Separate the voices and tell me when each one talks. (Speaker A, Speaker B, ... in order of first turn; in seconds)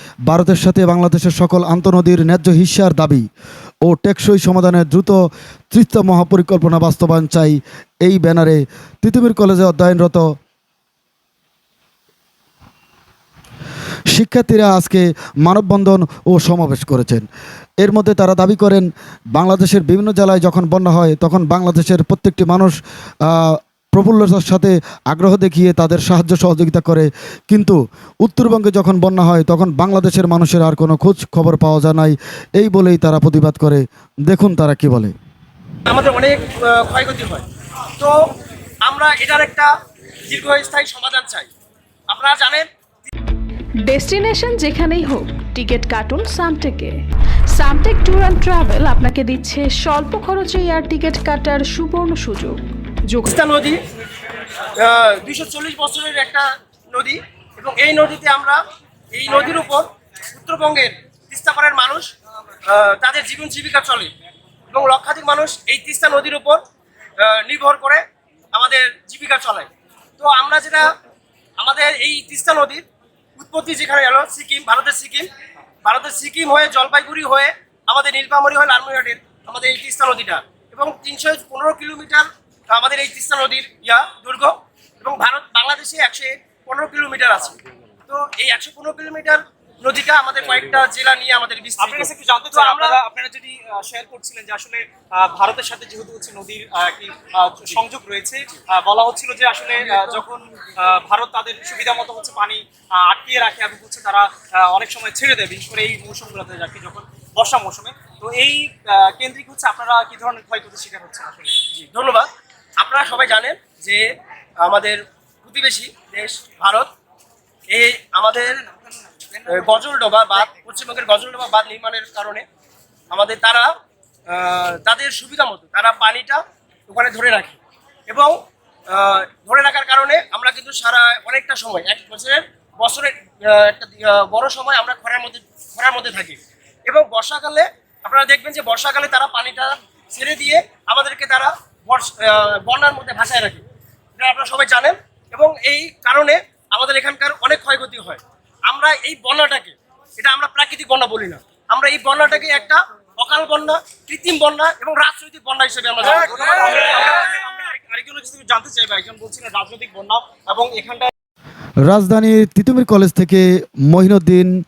Speaker A: 0.3-3.2, 3.9-5.2, 5.7-10.3, 14.1-17.2, 17.8-35.1, 161.9-164.5
Speaker B: 35.9-37.5, 38.8-39.7, 40.3-41.5, 42.1-42.7, 53.3-53.8, 54.8-58.6, 59.1-62.1, 62.7-64.1, 64.7-66.6, 67.2-68.0, 68.5-70.9, 71.6-72.8, 73.4-75.3, 75.8-93.0, 111.7-114.1, 114.6-116.9, 117.7-118.6, 119.5-122.5, 123.1-123.7, 124.3-127.6, 128.1-128.3, 128.9-143.6, 144.2-156.5
Speaker C: 43.9-47.0, 47.6-52.6
Speaker D: 91.8-111.6, 119.2-119.8, 156.2-161.1